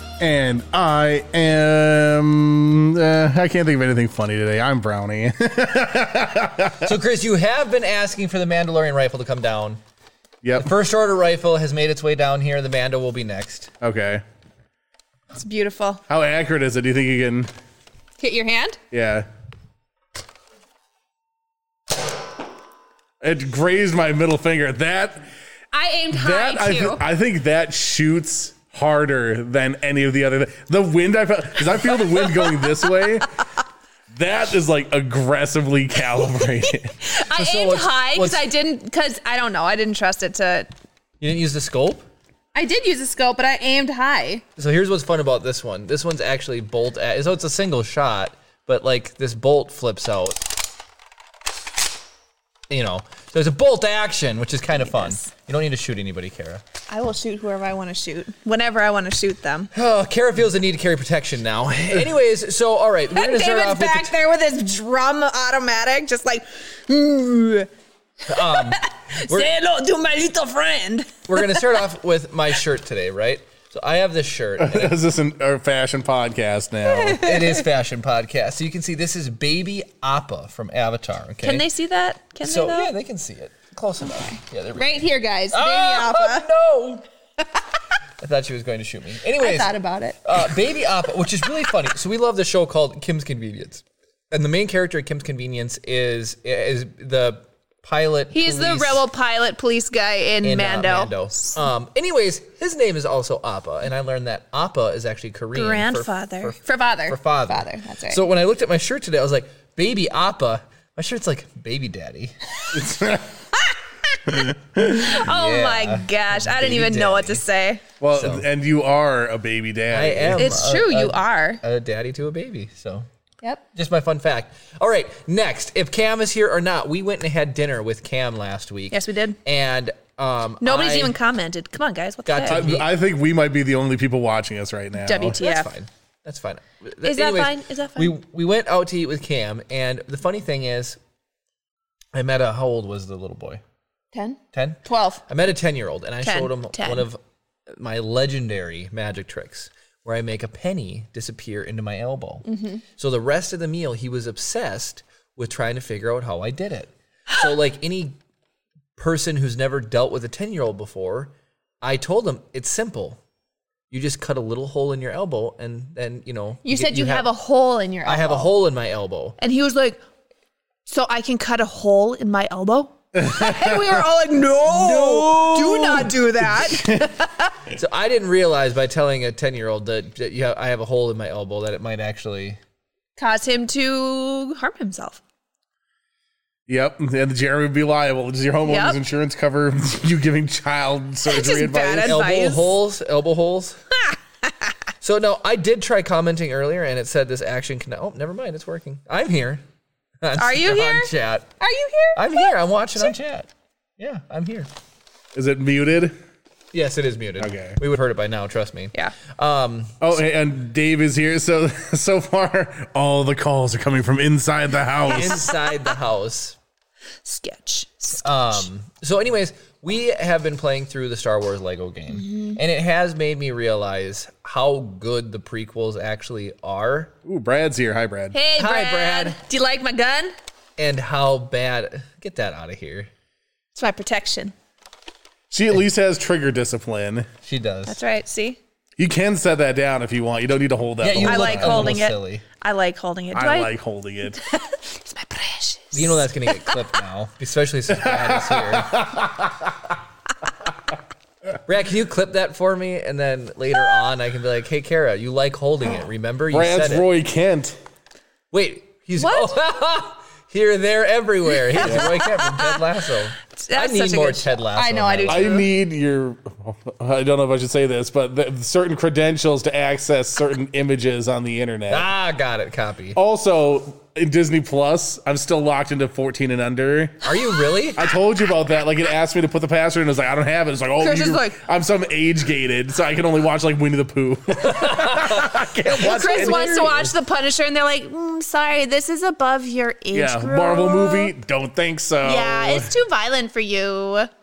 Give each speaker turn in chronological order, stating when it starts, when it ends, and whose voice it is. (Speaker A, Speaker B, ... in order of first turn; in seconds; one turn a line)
Speaker A: 0.2-6.9
Speaker B: 6.8-9.8
Speaker A: 10.4-10.7
Speaker B: 10.6-13.7
Speaker A: 13.8-14.2
Speaker C: 15.3-16.0
Speaker A: 16.1-17.5
Speaker C: 18.2-18.8
Speaker A: 18.9-19.3
Speaker A: 23.2-25.3
Speaker C: 25.7-27.0
Speaker A: 26.1-33.3
Speaker C: 32.3-32.7
Speaker A: 34.1-37.0
Speaker C: 37.0-40.7
Speaker B: 37.3-38.4
Speaker B: 41.2-42.0
Speaker C: 42.5-44.4
Speaker B: 44.6-50.5
Speaker B: 52.7-56.6
Speaker C: 54.7-55.3
Speaker C: 56.9-59.7
Speaker B: 59.7-64.1
Speaker C: 63.1-67.7
Speaker B: 68.3-69.5
Speaker C: 68.3-71.7
Speaker B: 71.3-74.9
Speaker A: 74.6-77.2
Speaker C: 76.8-77.6
Speaker B: 77.1-81.6
Speaker C: 81.4-82.9
Speaker B: 82.4-87.0
Speaker C: 84.7-86.4
Speaker B: 88.2-89.7
Speaker C: 89.4-90.2
Speaker B: 90.2-99.0
Speaker C: 98.3-101.5
Speaker B: 100.4-112.3
Speaker C: 105.5-108.2
Speaker A: 112.7-113.4
Speaker C: 113.6-114.2
Speaker A: 114.3-115.2
Speaker C: 114.9-117.8
Speaker B: 115.2-117.4
Speaker A: 118.0-120.6
Speaker B: 118.1-118.5
Speaker B: 119.9-123.0
Speaker C: 120.4-121.6
Speaker B: 123.7-131.2
Speaker C: 128.9-129.4
Speaker C: 130.6-132.8
Speaker B: 132.2-132.9
Speaker A: 132.4-135.4
Speaker C: 135.0-135.7
Speaker B: 135.4-141.0
Speaker C: 137.0-138.1
Speaker B: 142.1-143.6
Speaker C: 144.1-145.3
Speaker B: 144.5-147.2
Speaker C: 146.2-147.1
Speaker B: 147.7-158.2
Speaker C: 152.5-152.8
Speaker B: 158.9-163.2
Speaker B: 163.9-167.3
Speaker C: 166.6-168.5
Speaker B: 168.0-169.3
Speaker C: 169.4-170.0
Speaker C: 170.8-177.5
Speaker A: 173.1-174.0
Speaker B: 174.7-176.1
Speaker A: 176.4-177.1
Speaker B: 177.7-182.6
Speaker C: 183.2-185.2
Speaker A: 186.7-192.2
Speaker C: 188.7-189.0
Speaker C: 191.2-192.8
Speaker B: 192.0-193.8
Speaker C: 194.1-194.5
Speaker B: 195.0-199.6
Speaker B: 200.2-201.5
Speaker C: 200.3-203.1
Speaker B: 202.1-204.7
Speaker A: 205.3-206.1
Speaker B: 206.7-210.0
Speaker A: 207.4-207.8
Speaker A: 210.0-215.5
Speaker B: 215.1-216.6
Speaker C: 215.3-215.6
Speaker C: 217.2-218.6
Speaker B: 218.2-227.1
Speaker C: 222.2-222.6
Speaker A: 227.2-228.4
Speaker C: 228.3-230.3
Speaker B: 228.6-229.4
Speaker B: 230.8-233.1
Speaker C: 233.7-234.5
Speaker A: 235.5-237.3
Speaker B: 237.4-238.0
Speaker C: 237.9-238.6
Speaker A: 239.0-242.0
Speaker B: 241.0-242.4
Speaker C: 241.2-243.7
Speaker A: 243.3-244.4
Speaker C: 244.3-246.9
Speaker B: 245.9-249.0
Speaker A: 247.9-250.0
Speaker B: 251.7-257.1
Speaker A: 256.5-257.8
Speaker B: 258.5-265.6
Speaker C: 259.2-259.6
Speaker C: 261.7-262.8
Speaker A: 261.8-262.1
Speaker C: 263.6-265.7
Speaker A: 265.3-272.1
Speaker B: 271.9-273.2
Speaker A: 273.1-277.2
Speaker B: 277.2-278.0
Speaker A: 277.9-287.1
Speaker C: 281.0-281.6
Speaker B: 284.6-286.9
Speaker C: 285.9-291.3
Speaker A: 290.1-292.9
Speaker C: 292.2-294.3